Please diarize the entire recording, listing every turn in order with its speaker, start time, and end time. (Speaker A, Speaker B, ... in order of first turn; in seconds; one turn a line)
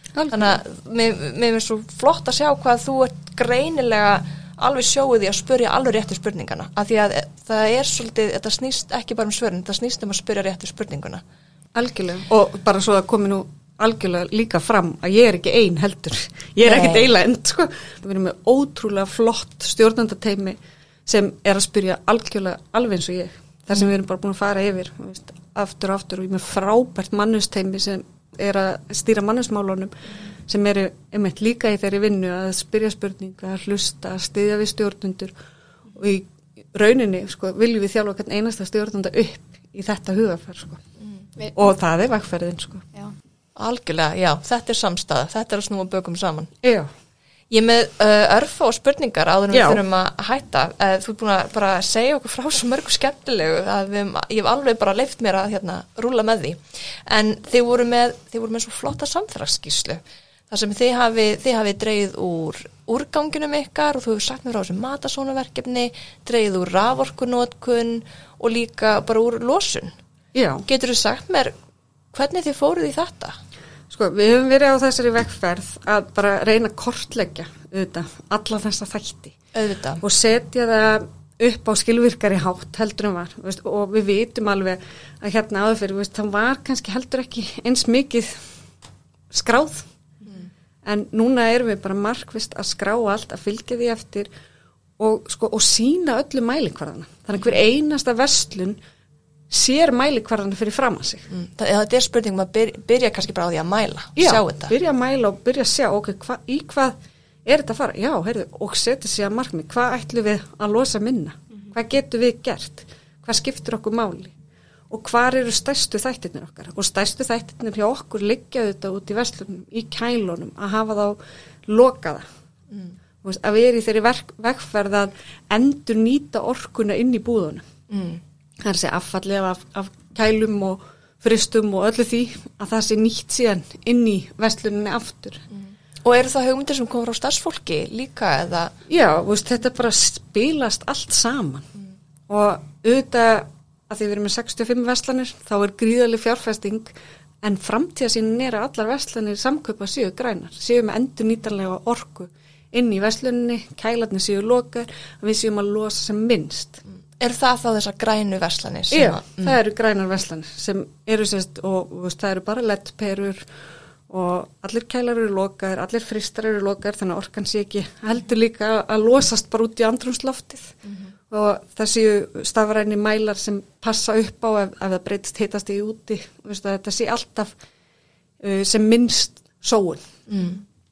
Speaker A: 0.1-0.6
Speaker B: 0.3-11.2
Speaker A: 11.7-35.3
Speaker B: 16.6-17.1
Speaker A: 35.9-40.8
Speaker A: 41.5-42.9
Speaker B: 43.5-46.5
Speaker A: 46.6-46.9
Speaker B: 47.5-69.9
Speaker A: 49.5-49.8
Speaker A: 70.3-70.7
Speaker B: 70.7-71.5
Speaker B: 72.1-73.4
Speaker A: 73.9-79.4
Speaker B: 79.5-80.0
Speaker A: 80.0-88.4
Speaker A: 89.3-89.9
Speaker A: 90.8-94.3
Speaker A: 95.0-98.8
Speaker A: 99.5-101.3
Speaker B: 101.3-104.7
Speaker A: 104.2-114.3
Speaker A: 114.9-122.2
Speaker A: 123.2-127.6
Speaker B: 127.9-128.2
Speaker A: 128.6-135.4
Speaker B: 135.5-138.7
Speaker A: 138.9-141.7
Speaker A: 142.3-146.9
Speaker A: 147.4-156.8
Speaker B: 157.2-159.6
Speaker A: 158.9-163.5
Speaker A: 164.1-170.8
Speaker A: 171.3-177.5
Speaker A: 178.4-180.1
Speaker B: 180.3-180.6